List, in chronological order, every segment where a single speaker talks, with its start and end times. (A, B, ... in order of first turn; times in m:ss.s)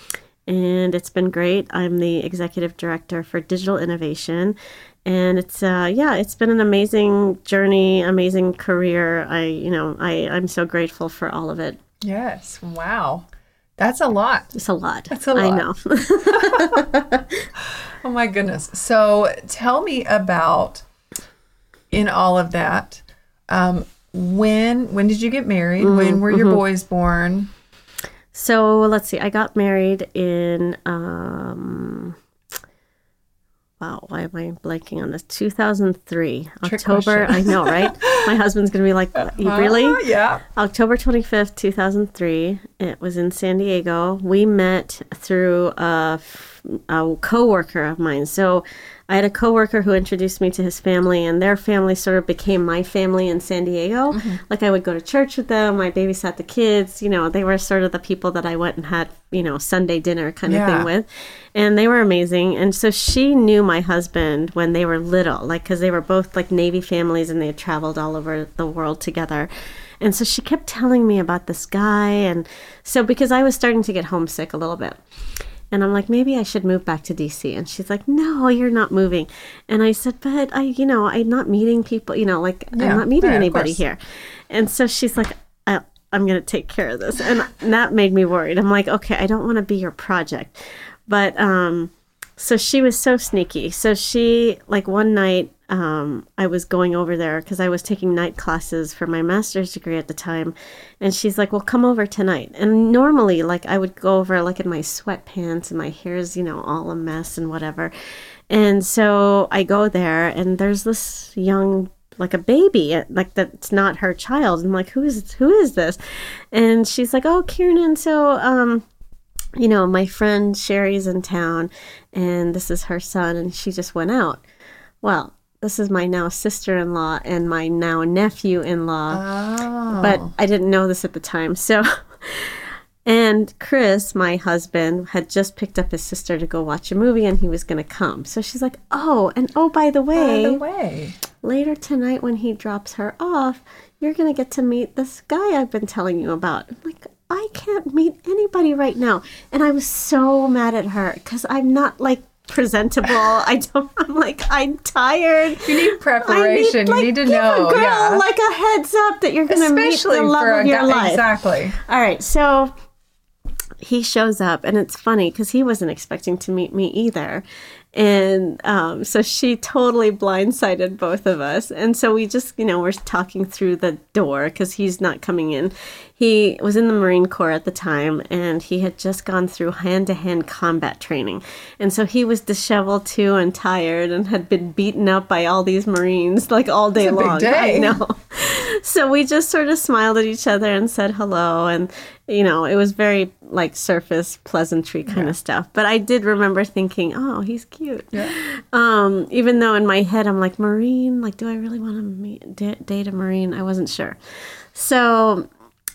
0:00.5-0:11.8 A
0:12.0-0:13.3 B
0:13.8-0:14.5 B
0:14.5-0:17.5 A
0:15.1-0:15.6 B
0:16.3-0:16.8 B
0:17.6-0:20.8 B
0:21.9-0:27.5 B
0:25.8-0:26.6 A
0:28.3-0:32.2 A
0:33.8-0:40.0 A
0:36.6-0:38.3 B
0:39.2-0:40.4 B
0:40.6-1:09.5 A
0:54.1-0:54.4 B
1:00.5-1:00.9 B
1:10.0-1:15.0 A
1:15.7-1:24.0 A
1:22.8-1:23.8 B
1:24.5-1:47.9 A
1:48.5-1:56.0 A
1:56.5-1:58.8 A
1:59.6-2:04.4 A
2:05.0-2:09.2 A
2:09.1-2:10.3 B
2:09.9-2:20.6 A
2:20.1-2:21.2 B
2:21.4-2:41.3 A
2:35.6-2:38.3 B
2:39.5-2:41.8 B
2:41.8-2:42.7 A
2:43.8-2:47.4 A
2:48.0-3:25.5 A
3:07.0-3:08.0 B
3:15.1-3:15.4 B